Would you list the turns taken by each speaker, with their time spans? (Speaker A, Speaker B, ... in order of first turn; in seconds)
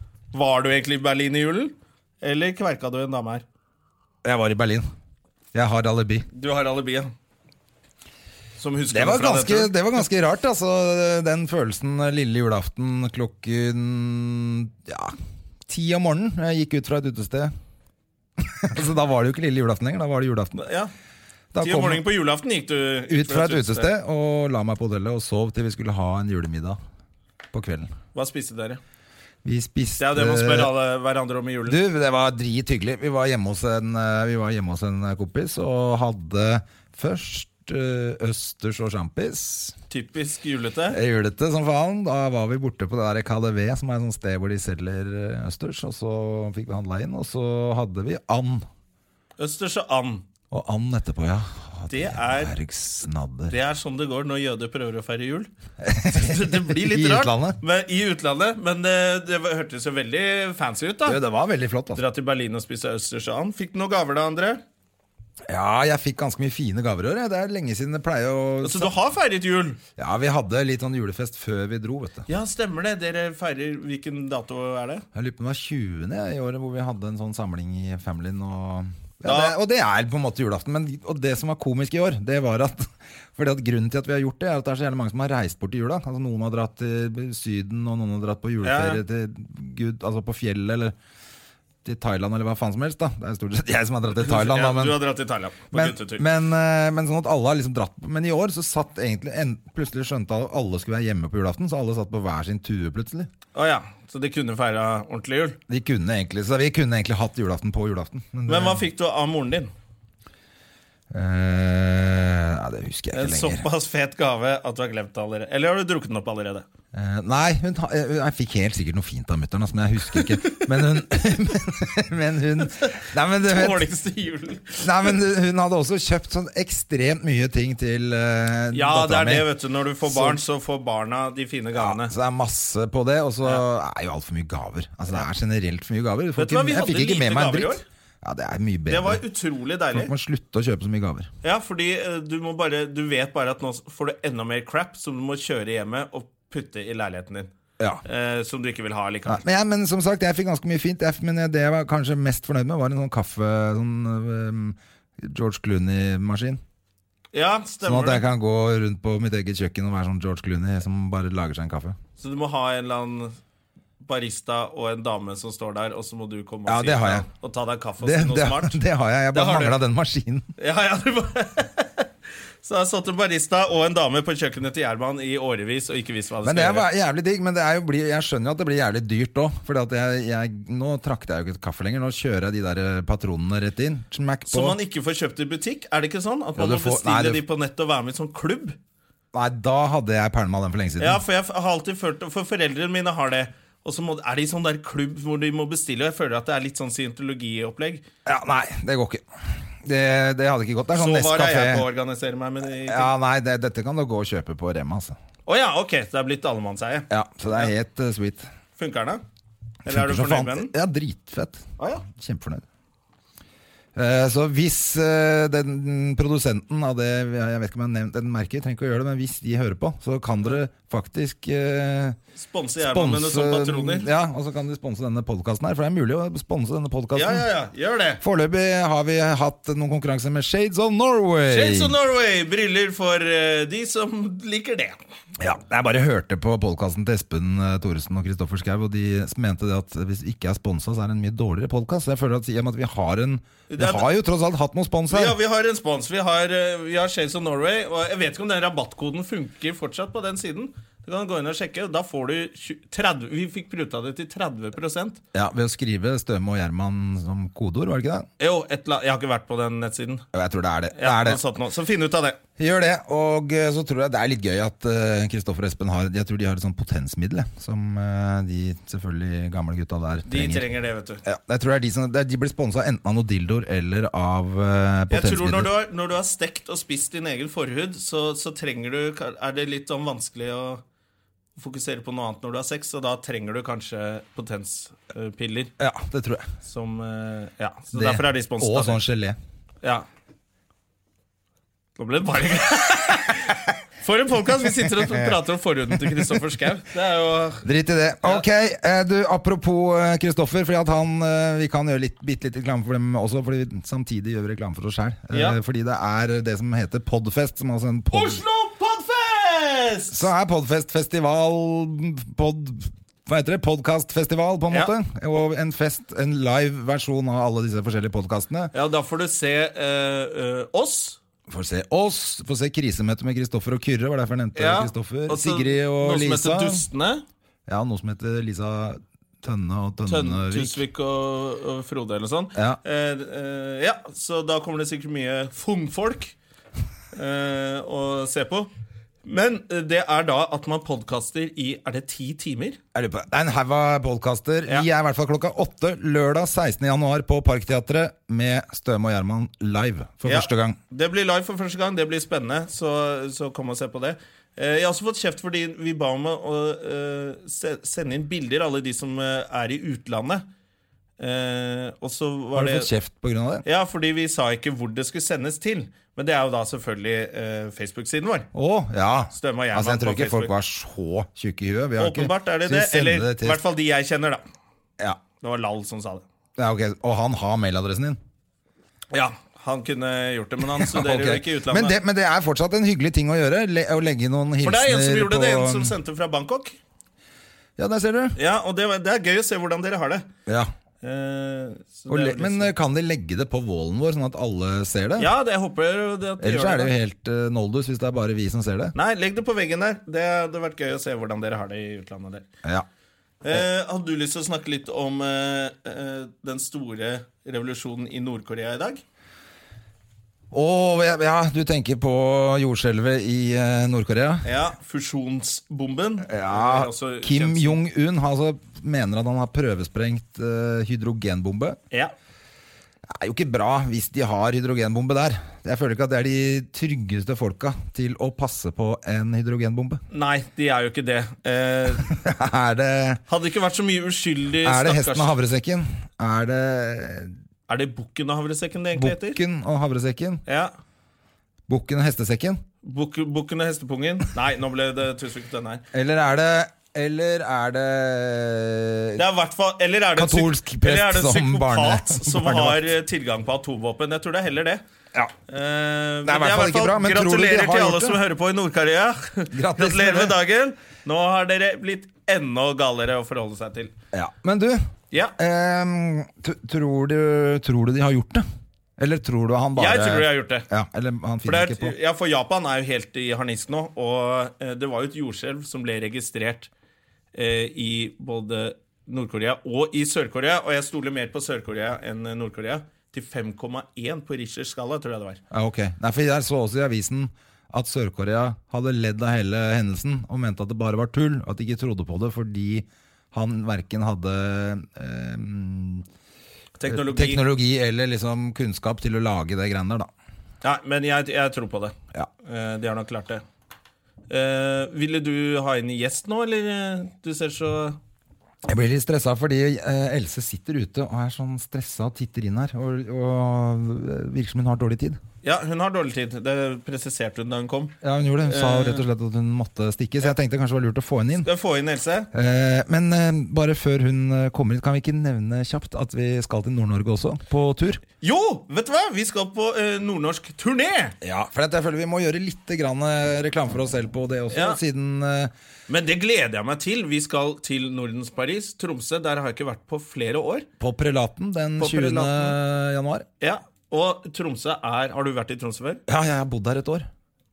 Speaker A: 0.3-3.4, 6.3-7.1, 8.6-9.8, 20.6-20.9, 21.6-23.9, 28.1-28.8, 30.0-31.8, 39.9-41.0, 49.4-50.2, 51.9-52.5, 53.5-55.5, 56.1-61.2, 62.0-64.6, 68.6-69.8, 72.3-75.0, 79.2-79.5, 88.6-89.0, 94.2-96.3, 103.5-105.6, 108.5-109.7, 113.1-116.7, 120.1-120.7, 122.8-125.2, 128.7-132.1, 136.4-137.8, 138.9-140.1, 141.4-147.5, 148.1-149.4, 157.3-158.2, 162.2-163.3, 164.0-168.8, 169.3-169.8, 170.6-172.1, 172.6-176.9, 184.5-188.8, 191.0-198.0, 201.0-203.1, 205.5-207.7, 208.8-209.2, 209.9-210.7, 211.8-212.1, 222.4-224.1, 227.2-228.2, 231.5-235.0, 243.7-244.1, 245.1-255.2, 258.4-260.2, 260.9-262.4, 270.3-271.2, 275.1-280.8, 281.6-285.7, 286.6-289.0, 292.0-297.6, 305.3-305.6, 308.1-310.3, 318.7-321.2, 324.6-327.2, 330.1-336.4, 337.1-338.7, 339.2-342.8, 350.3-360.4, 361.2-362.9, 363.6-368.5, 369.4-370.5, 372.0-374.4, 375.4-376.2, 379.1-382.0, 384.6-386.8, 388.4-390.3, 391.0-392.7, 395.2-396.9, 399.0-402.4, 403.4-409.0, 414.4-417.8, 430.1-432.2, 433.3-435.3, 437.7-439.4, 440.5-440.7, 442.8-445.8, 449.2-454.8, 455.5-463.9, 469.8-470.7, 471.4-476.7, 477.3-485.4, 496.8-497.4, 500.6-503.4, 504.3-508.0, 515.4-519.0, 521.4-522.3, 528.2-531.2, 534.5-534.8, 535.9-540.7, 541.8-542.6, 543.4-546.0
Speaker B: 4.2-4.9, 5.5-6.3, 8.9-15.2, 15.7-17.5, 18.4-20.6, 21.5-22.0, 23.1-26.8, 27.5-27.9, 29.4-30.7, 31.7-39.8, 40.9-48.7, 50.5-53.6, 55.8-57.6, 61.1-62.0, 65.5-68.9, 70.0-72.3, 75.1-91.0, 91.8-95.0, 95.7-103.3, 105.7-108.8, 111.1-113.7, 116.9-123.9, 124.8-129.5, 130.1-130.4, 131.8-139.2, 139.9-141.3, 149.3-156.6, 157.8-162.0, 166.7-167.3, 168.0-170.5, 176.4-184.8, 186.6-187.4, 189.3-191.2, 198.3-201.9, 202.9-205.2, 207.1-208.5, 209.9-212.6, 213.9-222.2, 222.8-227.4, 228.2-231.9, 235.4-245.4, 255.3-258.3, 260.3-261.4, 262.6-270.7, 271.2-275.7, 285.8-286.5, 287.9-289.4, 295.0-295.4, 296.0-296.4, 297.6-308.4, 310.1-318.7, 321.5-326.9, 327.7-330.8, 332.6-332.8, 342.9-350.8, 362.6-363.6, 368.5-373.6, 376.6-378.2, 380.8-386.0, 387.8-388.4, 392.1-395.3, 396.4-398.9, 410.5-414.5, 416.2-421.8, 423.1-430.0, 432.1-433.2, 434.6-437.3, 438.9-440.4, 441.7-442.6, 445.9-449.2, 450.2-452.9, 456.2-458.2, 459.5-460.4, 464.1-468.4, 469.0-472.0, 485.5-496.1, 496.9-500.1, 508.7-515.2, 518.0-521.5, 522.3-528.0, 531.2-535.5, 540.8-543.3, 546.1-547.1